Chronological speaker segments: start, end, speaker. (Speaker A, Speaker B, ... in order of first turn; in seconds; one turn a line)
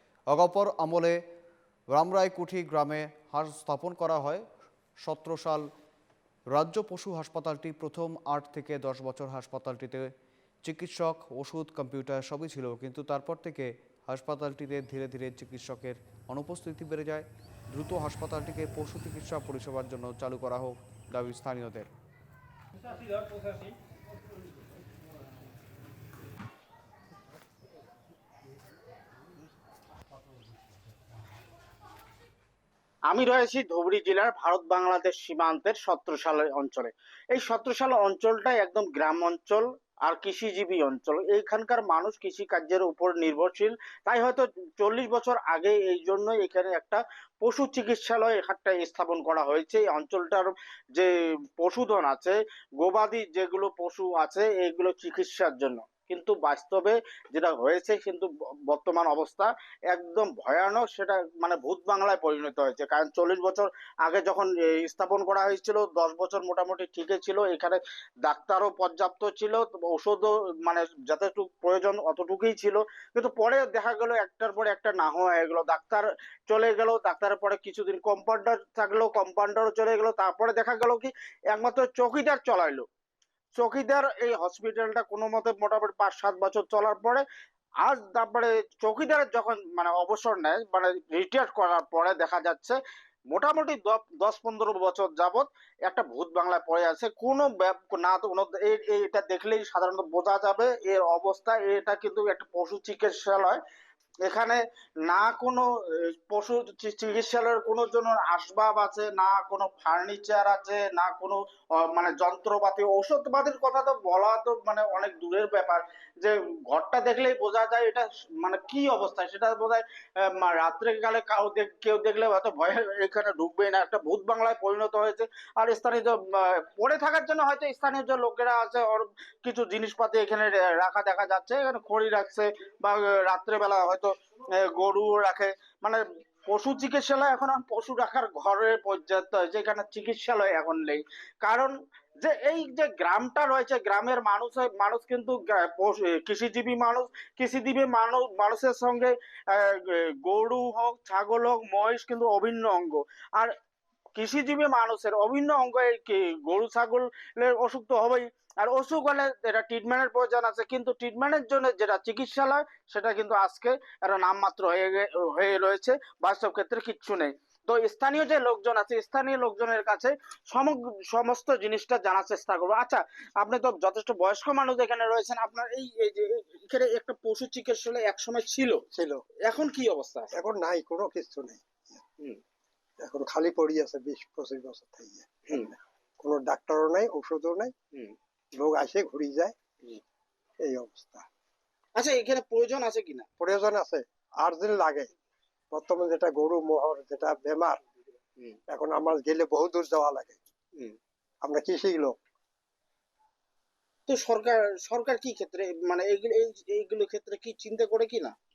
Speaker A: 0.3-1.2
Speaker A: 1.9-4.5
Speaker A: 5.1-5.7
Speaker A: 6.5-10.1
Speaker A: 10.7-21.9
Speaker B: 33.1-82.8
Speaker B: 83.5-87.2
Speaker B: 87.8-92.8
Speaker B: 93.3-103.6
Speaker B: 104.3-105.7
Speaker B: 106.3-119.8
Speaker B: 120.4-153.5
Speaker B: 154.2-178.8
Speaker C: 178.9-179.2
Speaker B: 179.5-180.3
Speaker C: 180.3-182.0
Speaker C: 183.0-187.7
Speaker C: 188.6-189.6
Speaker C: 190.6-191.3
Speaker B: 192.0-193.3
Speaker C: 193.4-195.1
Speaker C: 195.7-197.8
Speaker C: 198.7-200.4
Speaker C: 201.4-202.2
Speaker B: 204.1-208.3